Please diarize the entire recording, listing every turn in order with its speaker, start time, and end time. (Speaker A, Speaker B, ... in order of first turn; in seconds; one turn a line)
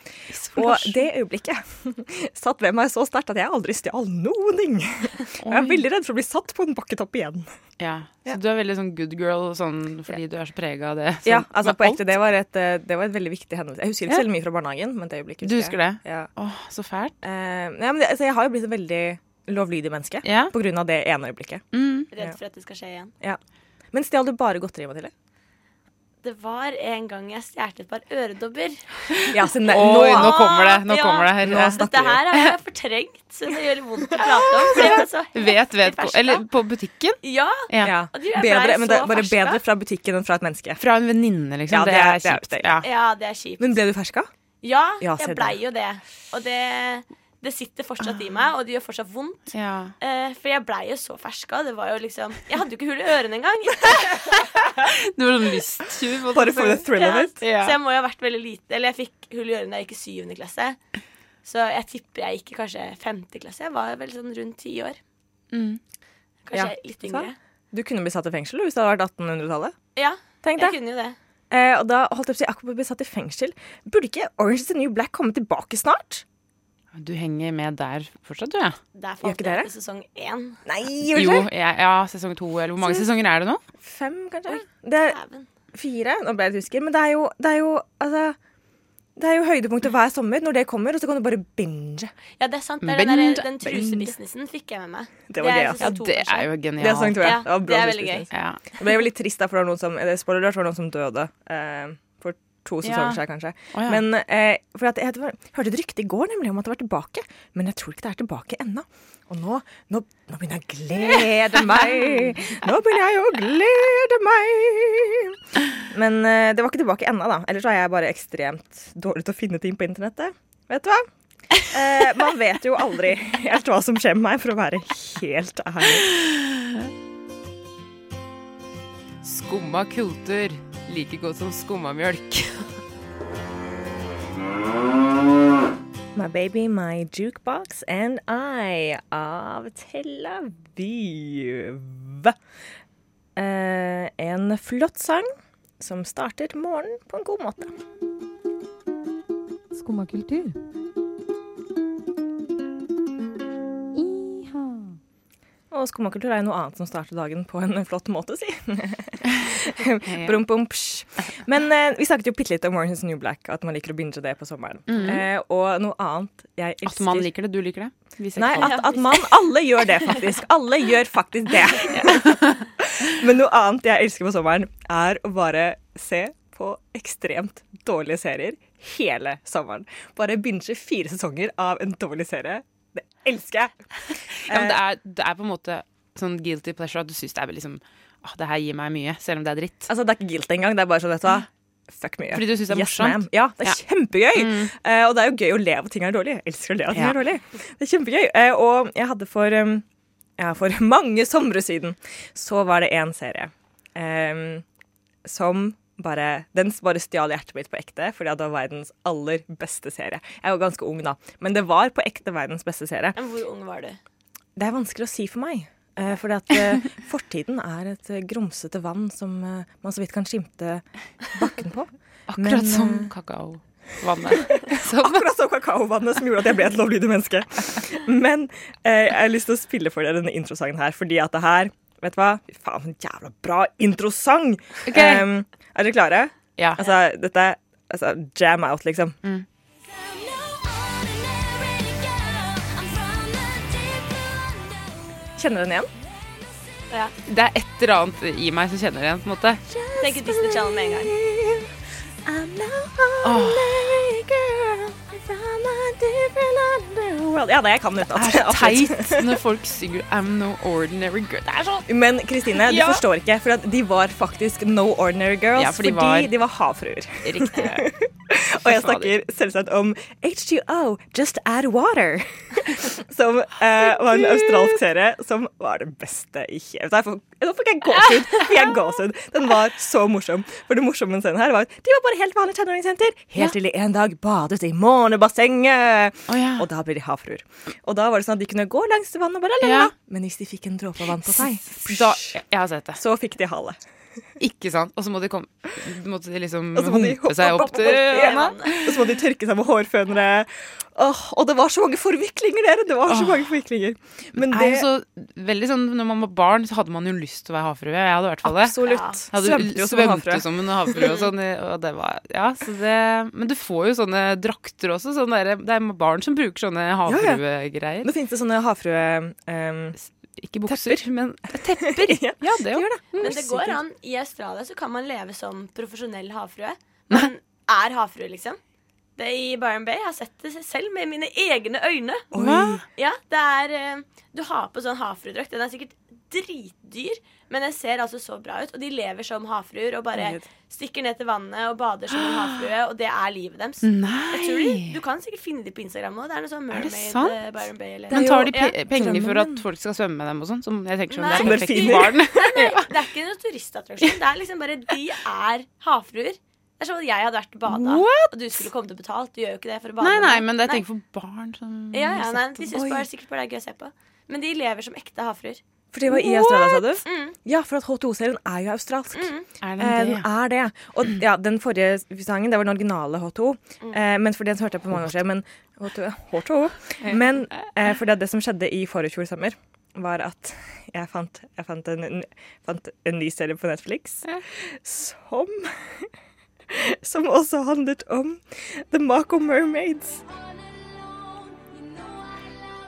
Speaker A: 0.3-1.1
Speaker B: 0.5-7.5
Speaker A: 5.4-5.8
Speaker A: 7.8-12.0
Speaker B: 11.2-16.3
Speaker A: 15.4-17.1
Speaker B: 17.2-21.6
Speaker A: 20.2-20.5
Speaker A: 21.7-22.1
Speaker C: 22.1-23.1
Speaker B: 23.9-25.1
Speaker C: 26.2-29.2
Speaker B: 29.3-30.4
Speaker A: 29.7-31.8
Speaker C: 29.8-36.4
Speaker B: 31.4-32.2
Speaker B: 34.2-35.0
Speaker A: 35.3-37.2
Speaker C: 37.2-39.6
Speaker A: 37.7-37.9
Speaker B: 37.8-40.8
Speaker A: 40.8-42.9
Speaker B: 41.7-42.8
Speaker C: 42.8-43.7
Speaker B: 43.6-44.3
Speaker C: 44.6-49.5
Speaker B: 45.0-45.6
Speaker A: 49.5-49.9
Speaker C: 50.0-54.4
Speaker A: 54.9-56.9
Speaker B: 56.3-57.4
Speaker C: 56.9-60.8
Speaker A: 57.4-57.7
Speaker C: 61.4-65.0
Speaker A: 65.5-65.8
Speaker C: 66.4-67.3
Speaker B: 66.5-69.8
Speaker C: 70.0-71.2
Speaker B: 70.4-70.8
Speaker B: 71.5-76.2
Speaker A: 76.9-78.8
Speaker C: 78.9-80.6
Speaker B: 79.2-79.7
Speaker B: 80.7-81.5
Speaker A: 81.1-83.6
Speaker B: 83.8-85.2
Speaker C: 84.5-85.5
Speaker B: 85.7-88.4
Speaker B: 89.2-92.1
Speaker C: 92.4-96.5
Speaker A: 92.8-93.9
Speaker B: 93.6-94.0
Speaker B: 95.3-95.9
Speaker A: 95.8-97.3
Speaker B: 96.8-121.1
Speaker C: 97.2-98.3
Speaker A: 98.3-98.6
Speaker A: 102.8-103.2
Speaker A: 103.7-104.0
Speaker B: 121.6-126.1
Speaker A: 129.2-132.6
Speaker B: 136.1-142.3
Speaker B: 143.3-145.3
Speaker B: 145.8-147.7
Speaker D: 149.7-150.6
Speaker D: 153.9-155.0
Speaker B: 155.7-167.3
Speaker A: 160.0-160.4
Speaker A: 164.9-165.2
Speaker A: 166.8-168.8
Speaker B: 168.3-183.7
Speaker C: 168.6-169.2
Speaker A: 171.9-172.6
Speaker A: 184.4-189.9
Speaker B: 184.5-184.8
Speaker B: 189.9-199.8
Speaker A: 192.3-193.8
Speaker A: 194.3-194.7
Speaker B: 200.4-204.6
Speaker B: 205.2-213.2
Speaker C: 213.2-214.0
Speaker B: 214.6-223.1
Speaker A: 222.3-225.3
Speaker B: 224.4-239.2
Speaker A: 234.8-235.3
Speaker B: 245.3-245.9
Speaker A: 247.2-249.6
Speaker B: 249.7-259.4
Speaker C: 250.0-251.1
Speaker A: 253.2-253.8
Speaker A: 258.1-261.9
Speaker B: 261.9-292.4
Speaker A: 262.6-263.0
Speaker A: 265.5-266.3
Speaker A: 267.2-267.9
Speaker A: 268.6-269.1
Speaker A: 286.3-286.7
Speaker A: 289.6-289.9
Speaker A: 291.2-293.0
Speaker B: 293.0-293.8
Speaker A: 294.4-298.9
Speaker B: 296.7-304.9
Speaker C: 297.7-298.8
Speaker A: 303.1-303.5
Speaker A: 304.4-308.8
Speaker B: 308.4-311.1
Speaker C: 308.8-309.2
Speaker A: 309.3-318.1
Speaker B: 317.1-317.4
Speaker B: 318.0-320.0
Speaker A: 320.0-323.4
Speaker B: 320.6-321.0
Speaker B: 321.8-323.8
Speaker C: 323.2-328.6
Speaker C: 329.2-332.3
Speaker B: 332.3-332.8
Speaker A: 332.3-332.8
Speaker C: 332.9-348.7
Speaker B: 340.1-340.4
Speaker A: 343.8-345.0
Speaker A: 346.7-347.4
Speaker B: 348.1-349.6
Speaker A: 348.1-352.9
Speaker C: 351.1-360.8
Speaker B: 351.3-352.6
Speaker A: 357.7-358.3
Speaker A: 360.0-362.8
Speaker C: 361.9-365.6
Speaker B: 362.7-363.0
Speaker B: 365.9-386.1
Speaker C: 366.3-367.4
Speaker C: 369.1-369.4
Speaker A: 369.6-370.3
Speaker B: 386.7-390.2